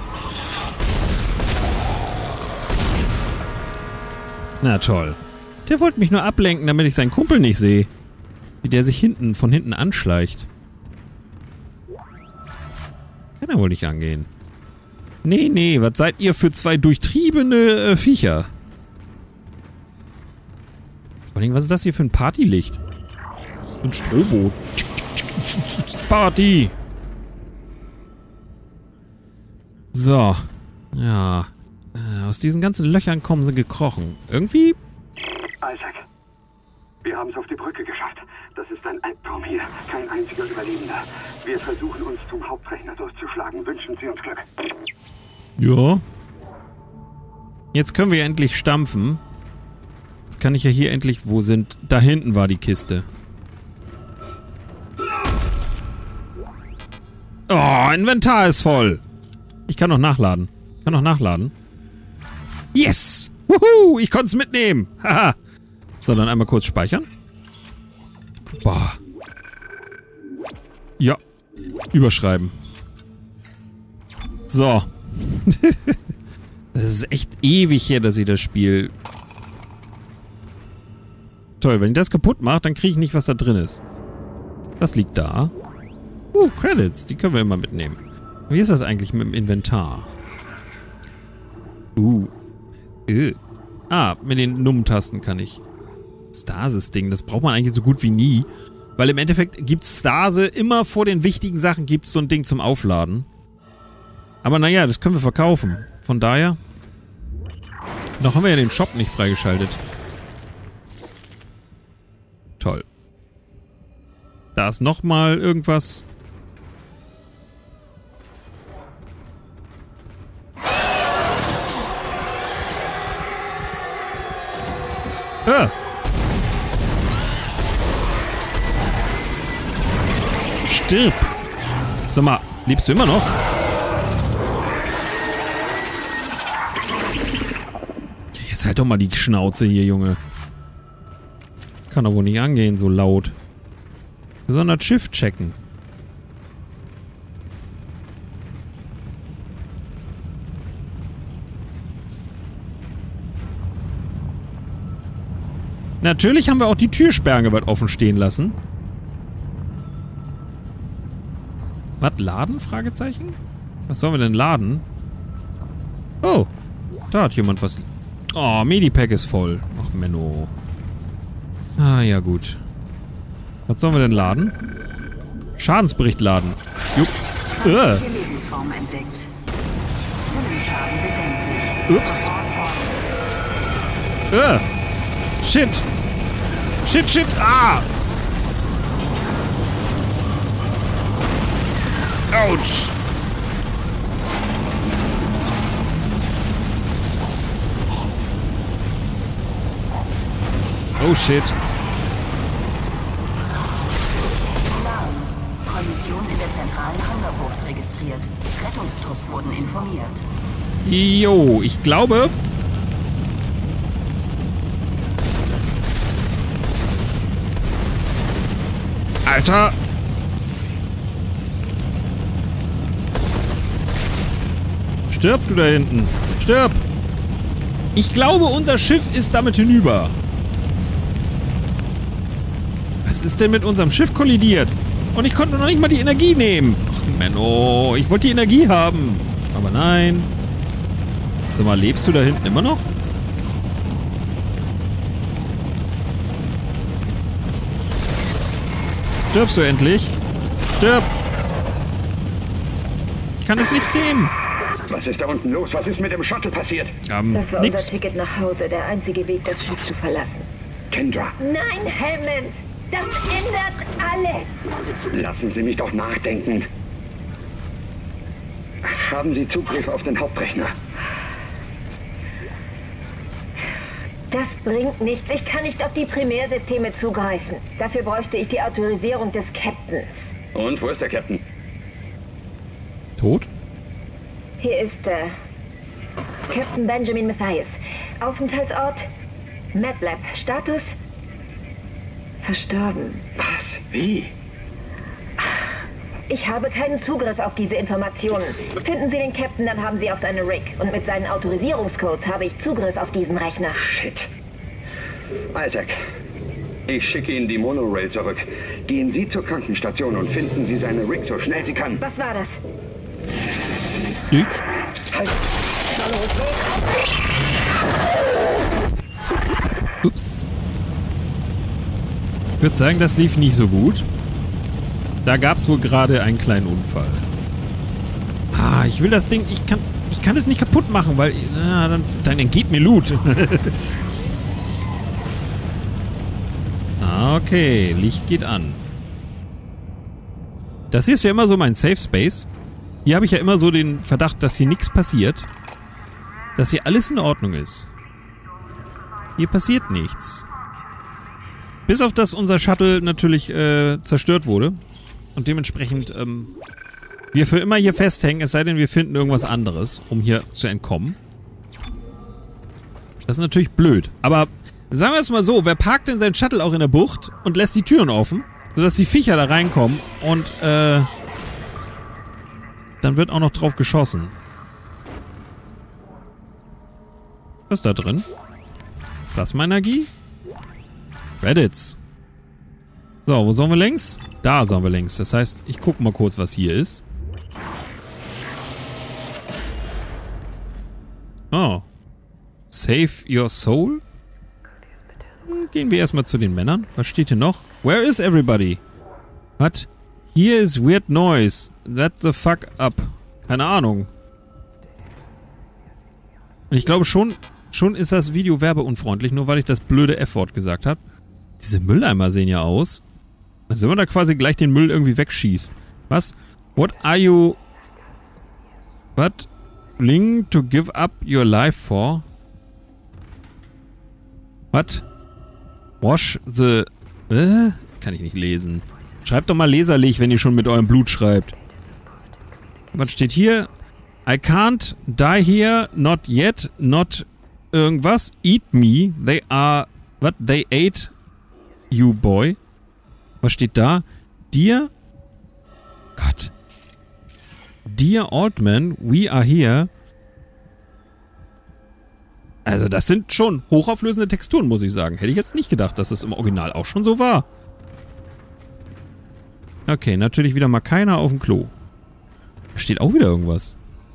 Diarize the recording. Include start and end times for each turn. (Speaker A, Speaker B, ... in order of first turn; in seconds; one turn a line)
Speaker A: 4.6-7.9
Speaker A: 8.6-10.5
Speaker A: 13.4-14.3
Speaker A: 15.2-18.5
Speaker A: 21.4-22.8
Speaker A: 23.8-26.8
Speaker A: 29.9-34.8
Speaker B: 35.6-36.0
Speaker B: 37.0-44.5
Speaker A: 45.6-46.0
Speaker A: 47.7-49.2
Speaker A: 50.3-53.1
Speaker A: 57.5-59.0
Speaker A: 59.7-61.5
Speaker A: 62.7-65.4
Speaker A: 66.0-67.1
Speaker A: 68.5-69.0
Speaker A: 71.9-72.5
Speaker A: 74.5-76.0
Speaker A: 76.7-78.9
Speaker A: 81.6-83.8
Speaker A: 84.8-85.5
Speaker A: 86.3-90.1
Speaker A: 92.0-92.3
Speaker A: 93.1-93.4
Speaker A: 93.9-95.6
Speaker A: 96.3-103.3
Speaker A: 104.4-106.6
Speaker A: 108.2-109.8
Speaker A: 112.6-112.9
Speaker A: 114.5-116.0
Speaker A: 125.5-125.7
Speaker A: 130.6-131.3
Speaker A: 132.1-133.3
Speaker A: 138.3-140.2
Speaker A: 141.9-143.4
Speaker A: 144.5-145.6
Speaker A: 156.0-158.6
Speaker A: 162.0-163.4
Speaker A: 163.9-164.8
Speaker A: 166.2-166.5
Speaker A: 167.1-170.5
Speaker A: 171.8-172.6
Speaker A: 173.7-174.6
Speaker A: 175.6-178.1
Speaker C: 177.6-179.3
Speaker C: 180.3-183.0
Speaker A: 181.9-182.3
Speaker A: 184.3-184.7
Speaker A: 185.4-185.9
Speaker A: 186.8-187.9
Speaker A: 192.3-192.9
Speaker A: 201.0-201.6
Speaker C: 204.7-210.2
Speaker A: 210.8-212.3
Speaker A: 219.2-219.8
Speaker A: 225.1-226.8
Speaker A: 227.9-230.2
Speaker A: 233.0-240.3
Speaker A: 241.5-242.9
Speaker A: 249.3-250.2
Speaker A: 250.7-251.1
Speaker A: 253.4-254.3
Speaker B: 254.9-257.0
Speaker A: 257.1-257.9
Speaker D: 257.3-260.5
Speaker B: 260.9-261.4
Speaker D: 261.4-264.5
Speaker B: 265.1-266.7
Speaker B: 268.8-270.7
Speaker D: 274.3-280.3
Speaker B: 280.5-281.4
Speaker A: 283.2-283.5
Speaker D: 284.6-285.3
Speaker D: 286.5-289.1
Speaker D: 289.7-290.9
Speaker D: 292.4-293.3
Speaker B: 293.4-294.3
Speaker D: 296.3-303.8
Speaker B: 303.8-304.3
Speaker B: 305.5-306.0
Speaker B: 306.9-312.0
Speaker D: 312.0-312.6
Speaker A: 314.3-314.6
Speaker B: 315.1-315.4
Speaker A: 320.0-320.5
Speaker A: 322.6-324.1
Speaker A: 325.2-327.2
Speaker A: 328.5-333.8
Speaker A: 337.0-338.8
Speaker A: 340.9-342.5
Speaker A: 343.1-345.5
Speaker A: 346.6-347.9
Speaker A: 349.4-350.4
Speaker A: 351.9-354.8
Speaker A: 355.4-356.5
Speaker A: 357.3-361.2
Speaker A: 363.3-371.1
Speaker A: 373.0-374.4
Speaker A: 377.7-378.3
Speaker A: 379.3-380.1
Speaker A: 381.4-382.0
Speaker A: 383.2-387.1
Speaker A: 391.5-391.9
Speaker A: 392.7-394.0
Speaker A: 395.5-398.8
Speaker A: 399.6-404.1
Speaker A: 406.7-411.0
Speaker A: 411.6-413.0
Speaker A: 413.7-417.6
Speaker A: 419.2-422.2
Speaker A: 424.7-425.1
Speaker A: 426.0-431.6
Speaker A: 432.9-433.7
Speaker A: 434.3-441.1
Speaker A: 441.9-442.6
Speaker A: 443.4-444.9
Speaker A: 446.2-446.5
Speaker A: 447.9-449.9
Speaker A: 452.6-457.5
Speaker A: 459.9-461.7
Speaker A: 462.8-463.8